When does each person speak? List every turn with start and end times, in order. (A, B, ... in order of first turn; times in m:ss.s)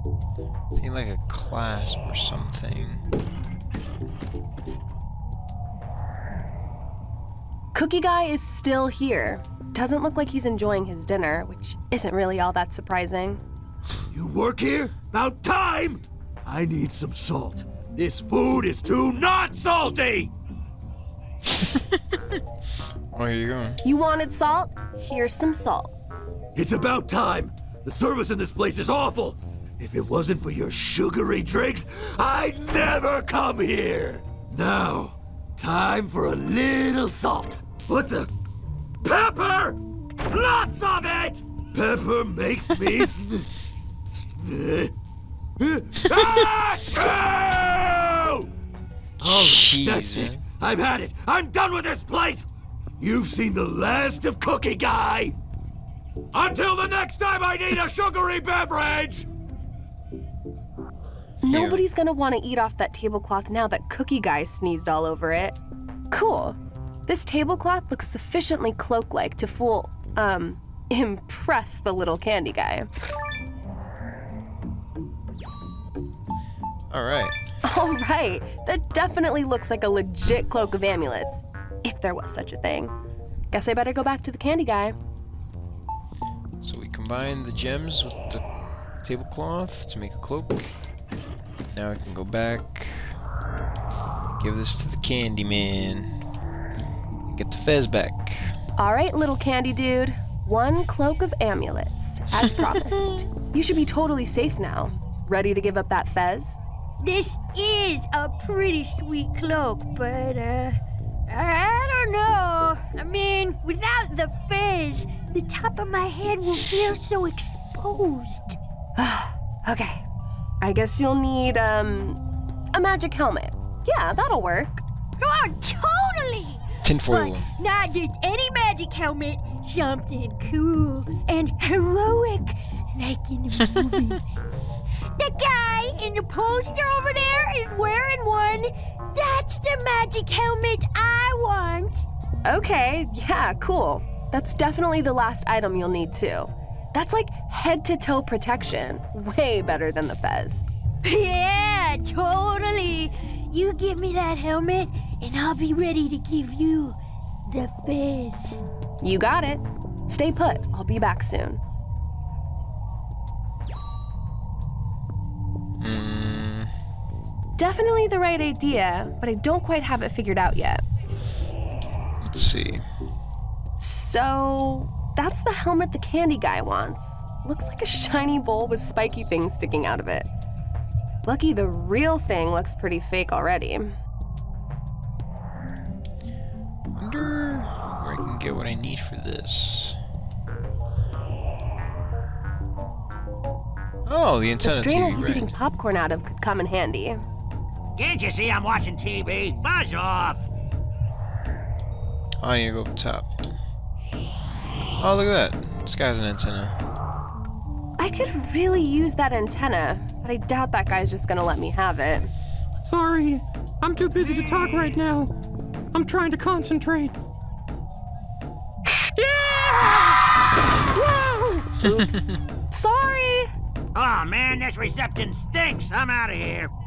0:00.7-0:03.0 A
0:07.7-0:13.4 B
0:14.1-0:20.3 C
0:23.1-0:23.8 A
0:23.8-0:25.9 B
0:26.6-0:38.3 C
0:39.0-0:43.5 C
0:44.1-0:44.9 C
0:45.6-0:48.5 C
0:49.2-0:52.5 C
0:49.2-0:50.4 A
0:53.0-0:55.3 C
0:56.3-0:59.3 C
1:01.4-1:05.6 B
1:01.4-1:01.8 A
1:06.1-1:12.9 B
1:16.9-1:17.3 A
1:17.6-1:22.9 B
1:23.5-1:24.9 B
1:26.6-1:28.4 A
1:29.0-1:30.7 A
1:31.7-1:33.1 A
1:34.3-1:36.2 A
1:37.3-1:38.5 A
1:38.8-1:46.6 B
1:47.0-1:58.6 D
1:59.0-2:00.0 B
2:00.6-2:02.2 B
2:02.7-2:04.8 B
2:05.2-2:14.4 D
2:06.8-2:07.5 A
2:15.2-2:22.0 D
2:22.4-2:30.7 B
2:31.0-2:38.6 D
2:39.0-2:41.6 B
2:45.8-2:46.7 A
2:47.6-2:50.8 B
2:52.2-2:52.8 A
2:53.8-3:00.3 B
3:01.2-3:03.9 B
3:06.9-3:10.0 A
3:14.1-3:15.5 A
3:14.6-3:17.2 B
3:18.0-3:20.4 E
3:22.4-3:23.3 A
3:25.0-3:26.8 A
3:28.0-3:32.3 B
3:32.8-3:35.3 F
3:34.2-3:35.0 E
3:35.9-3:37.2 F
3:40.9-3:43.5 B
3:43.9-3:46.7 E